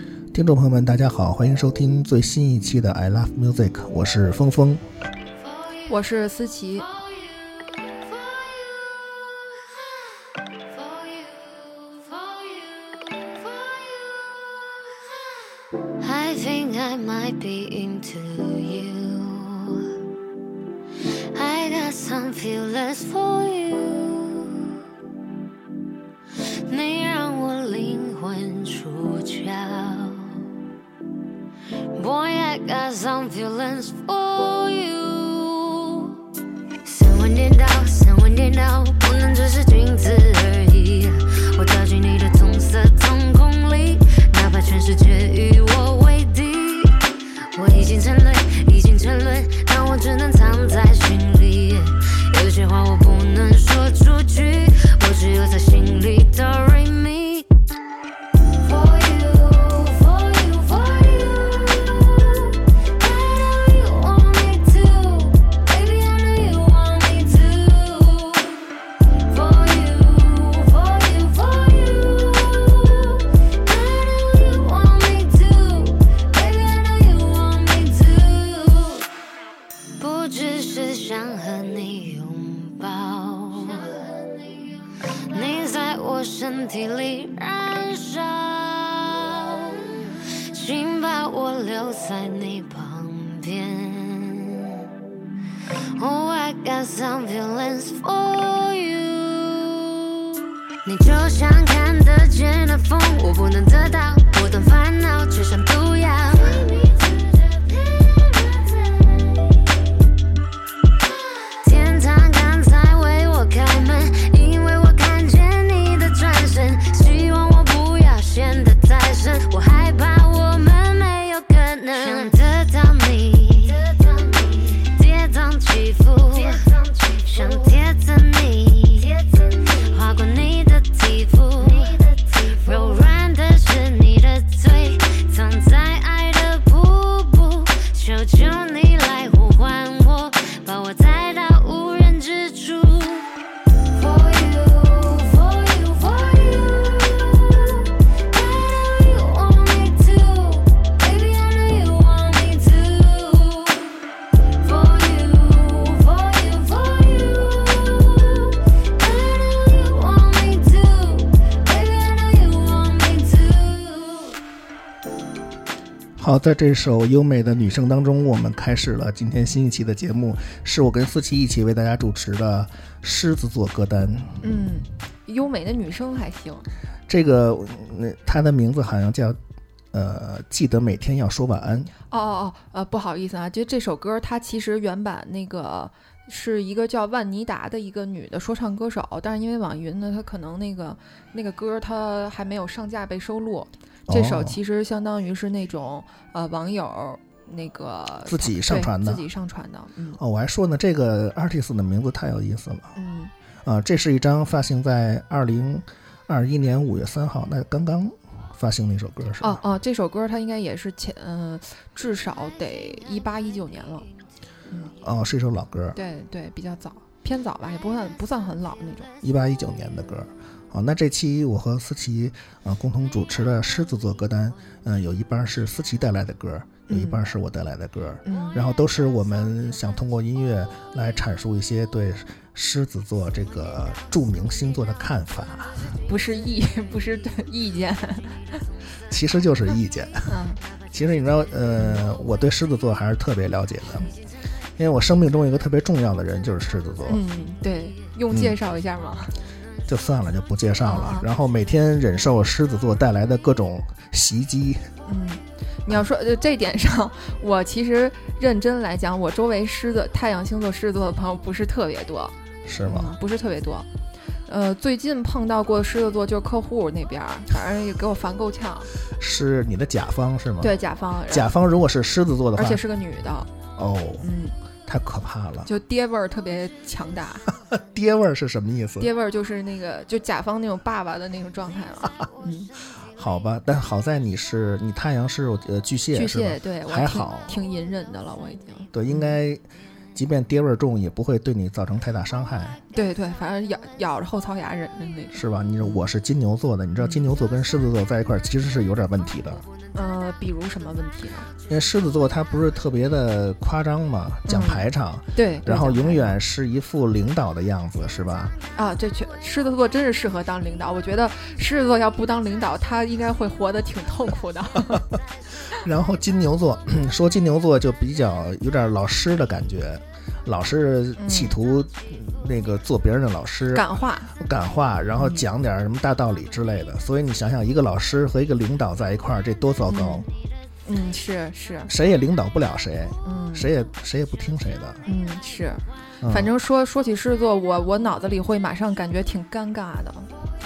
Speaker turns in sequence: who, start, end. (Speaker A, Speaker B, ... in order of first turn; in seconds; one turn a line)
Speaker A: 0.3-4.8
Speaker B: 5.5-5.8
Speaker C: 5.9-6.8
Speaker B: 7.0-7.5
Speaker B: 10.7-14.0
Speaker B: 16.0-19.9
Speaker B: 21.3-24.5
Speaker B: 26.7-30.4
Speaker B: 31.9-36.1
Speaker B: 36.8-47.0
Speaker B: 47.5-57.5
Speaker B: 58.6-62.4
Speaker B: 63.0-68.7
Speaker B: 69.2-79.1
Speaker B: 80.0-89.9
Speaker B: 90.5-94.7
Speaker B: 96.0-100.0
Speaker B: 100.8-109.3
Speaker B: 111.6-143.3
Speaker B: 143.9-147.7
Speaker B: 148.3-154.0
Speaker B: 154.6-164.4
Speaker A: 166.2-174.5
Speaker C: 174.4-176.6
Speaker A: 177.1-179.4
Speaker A: 179.9-181.9
Speaker C: 182.1-200.2
Speaker A: 194.1-194.6
Speaker A: 198.2-199.2
Speaker A: 200.2-202.9
Speaker C: 202.9-203.3
Speaker A: 203.6-209.6
Speaker C: 209.4-214.1
Speaker A: 215.0-216.0
Speaker C: 215.9-219.1
Speaker A: 219.2-235.9
Speaker C: 226.9-227.2
Speaker C: 228.2-228.6
Speaker C: 236.1-238.6
Speaker A: 239.1-244.1
Speaker C: 240.3-240.6
Speaker C: 241.8-242.0
Speaker A: 244.8-247.2
Speaker C: 247.1-249.3
Speaker A: 248.3-248.6
Speaker A: 249.8-254.9
Speaker C: 250.8-251.3
Speaker C: 255.1-263.9
Speaker A: 262.6-263.1
Speaker C: 264.5-268.9
Speaker A: 269.1-270.8
Speaker C: 270.6-271.5
Speaker A: 271.3-272.8
Speaker C: 272.6-273.5
Speaker A: 273.8-274.2
Speaker C: 274.2-274.5
Speaker A: 274.9-275.7
Speaker C: 275.6-277.5
Speaker A: 277.6-279.1
Speaker C: 279.0-282.7
Speaker A: 283.0-287.6
Speaker C: 286.1-289.4
Speaker A: 288.9-289.6
Speaker A: 290.1-292.8
Speaker C: 292.9-296.0
Speaker A: 295.3-299.6
Speaker C: 299.9-301.5
Speaker A: 301.7-308.6
Speaker C: 304.5-306.3
Speaker C: 308.7-315.1
Speaker A: 315.7-330.3
Speaker C: 321.2-321.5
Speaker C: 323.7-324.3
Speaker C: 325.2-325.4
Speaker C: 329.9-330.2
Speaker C: 330.9-331.9
Speaker A: 331.9-335.0
Speaker C: 333.2-333.7
Speaker C: 335.1-340.3
Speaker A: 336.2-336.5